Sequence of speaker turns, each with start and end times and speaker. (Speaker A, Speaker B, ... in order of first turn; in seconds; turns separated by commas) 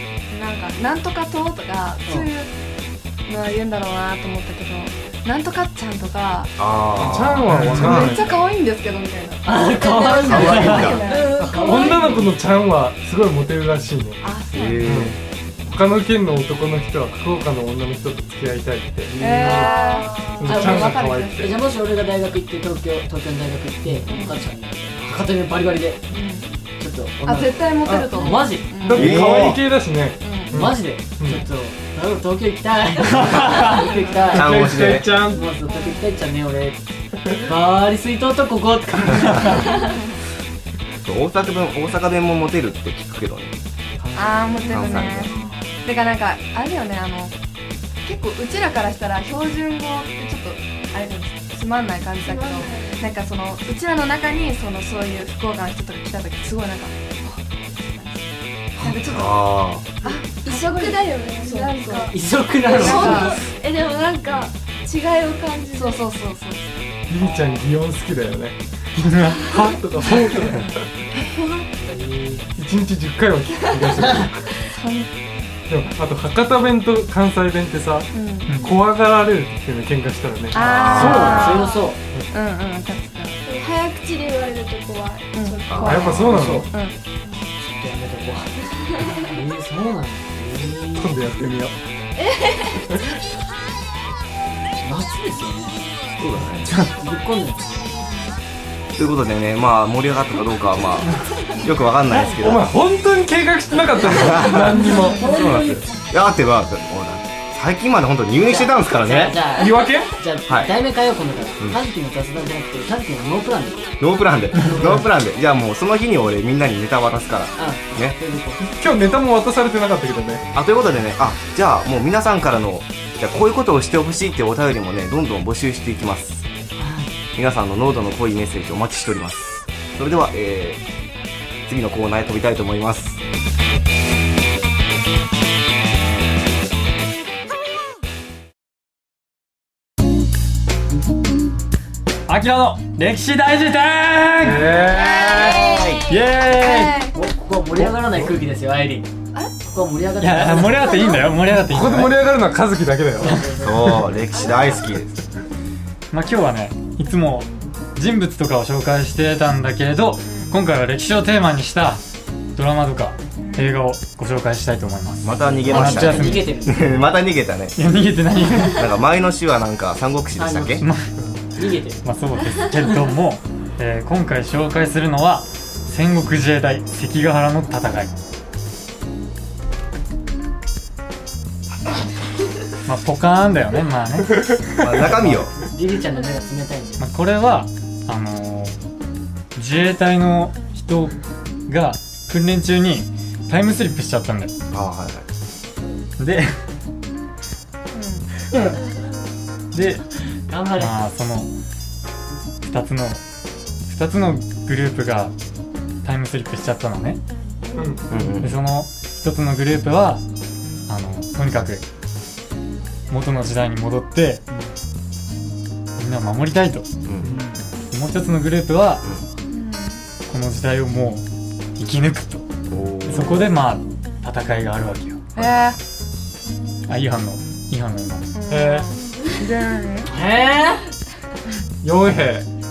Speaker A: 0.3-2.5, Speaker A: 3.3-6.6, Speaker B: 6.6-8.2, Speaker C: 7.0-8.4, Speaker D: 7.5-8.0, Speaker A: 7.7-11.4, Speaker E: 9.4-12.3, Speaker F: 9.8-12.2, Speaker B: 10.2-11.0, Speaker C: 11.6-14.2, Speaker A: 14.2-15.0, Speaker B: 14.5-15.2, Speaker C: 14.8-19.6, Speaker E: 19.1-19.8, Speaker A: 19.2-21.5, Speaker F: 19.5-20.5, Speaker C: 20.4-21.6, Speaker E: 20.4-26.1, Speaker A: 24.0-24.5, Speaker A: 26.1-26.6, Speaker E: 26.8-28.7, Speaker A: 27.2-29.3, Speaker C: 27.9-28.2, Speaker C: 28.8-31.5, Speaker B: 28.9-29.6, Speaker A: 30.2-30.8, Speaker E: 30.5-34.5, Speaker D: 33.3-33.9, Speaker A: 33.8-34.4, Speaker C: 34.3-35.5, Speaker B: 34.4-35.2, Speaker E: 35.2-39.7, Speaker A: 35.6-36.1, Speaker A: 39.6-40.0, Speaker B: 41.0-43.5, Speaker E: 44.0-45.8, Speaker A: 44.1-47.3, Speaker B: 44.7-45.3, Speaker A: 48.0-58.3, Speaker F: 52.2-53.2, Speaker A: 58.8-62.1, Speaker B: 59.1-59.9, Speaker F: 60.0-62.2, Speaker E: 62.1-63.4, Speaker A: 62.7-63.5, Speaker F: 62.8-66.0, Speaker A: 65.7-66.9, Speaker C: 67.1-68.6, Speaker E: 67.2-67.6, Speaker D: 69.0-69.5, Speaker C: 69.4-70.9, Speaker A: 70.5-71.4, Speaker F: 71.3-71.9, Speaker E: 71.8-72.5, Speaker C: 72.6-74.5, Speaker A: 74.6-75.1, Speaker C: 75.7-81.4, Speaker A: 78.1-78.7, Speaker D: 78.5-78.8, Speaker A: 80.5-83.4, Speaker B: 80.5-81.6, Speaker E: 80.9-82.0, Speaker F: 81.4-81.8, Speaker F: 83.4-86.0, Speaker A: 85.3-87.0, Speaker B: 85.7-86.6, Speaker C: 85.9-86.7, Speaker E: 86.2-91.1, Speaker F: 88.7-89.2, Speaker C: 91.0-91.8, Speaker F: 92.2-93.0, Speaker E: 94.8-95.8, Speaker B: 96.2-96.7, Speaker E: 96.7-98.0, Speaker B: 99.0-101.1, Speaker B: 101.6-102.7, Speaker C: 102.4-105.3, Speaker B: 104.1-109.4, Speaker E: 105.0-106.0, Speaker E: 108.4-113.9, Speaker C: 109.5-110.2, Speaker B: 110.5-110.7, Speaker B: 114.0-118.2, Speaker E: 114.5-115.1, Speaker E: 117.6-118.7, Speaker C: 118.6-120.5, Speaker B: 120.5-126.4, Speaker E: 126.8-127.1, Speaker B: 127.3-130.8, Speaker B: 131.7-133.2, Speaker D: 142.3-144.8, Speaker C: 144.4-145.6, Speaker E: 144.8-146.1, Speaker F: 145.1-146.3, Speaker D: 146.0-147.0, Speaker A: 146.5-147.2, Speaker E: 147.1-149.1, Speaker C: 147.8-148.2, Speaker E: 149.7-151.1, Speaker D: 150.2-152.3, Speaker F: 150.8-151.5, Speaker C: 151.5-154.1, Speaker E: 153.2-154.0, Speaker B: 153.6-155.1, Speaker F: 154.3-154.8, Speaker D: 156.1-162.0, Speaker D: 162.6-166.7, Speaker A: 163.4-163.8, Speaker B: 165.2-167.8, Speaker E: 165.7-167.0, Speaker D: 167.8-168.9, Speaker B: 168.7-170.8, Speaker E: 170.4-170.8, Speaker D: 170.8-171.1, Speaker E: 171.6-172.0, Speaker D: 172.0-178.1, Speaker D: 182.8-185.4, Speaker B: 184.8-185.5, Speaker E: 185.6-187.1, Speaker D: 187.0-188.8, Speaker D: 189.6-194.5, Speaker B: 194.7-195.2, Speaker D: 196.2-196.5, Speaker A: 197.9-198.3, Speaker E: 198.5-198.8, Speaker D: 199.7-200.0, Speaker E: 199.8-200.9, Speaker D: 200.8-201.5, Speaker D: 202.6-203.2, Speaker D: 203.9-205.3, Speaker D: 206.0-207.2, Speaker C: 207.8-208.1, Speaker B: 208.1-208.6, Speaker D: 208.3-210.2, Speaker D: 210.9-211.8, Speaker D: 213.1-214.4, Speaker D: 216.0-216.9, Speaker B: 217.1-217.3, Speaker E: 217.2-217.6, Speaker D: 217.9-219.1, Speaker A: 219.5-220.0, Speaker D: 220.3-221.2, Speaker D: 221.8-222.5, Speaker B: 222.7-223.4, Speaker D: 223.0-225.4, Speaker B: 225.4-225.7, Speaker A: 225.4-225.8, Speaker D: 226.9-228.4, Speaker A: 228.3-230.1, Speaker C: 228.5-228.9, Speaker E: 230.1-230.9, Speaker C: 231.8-232.5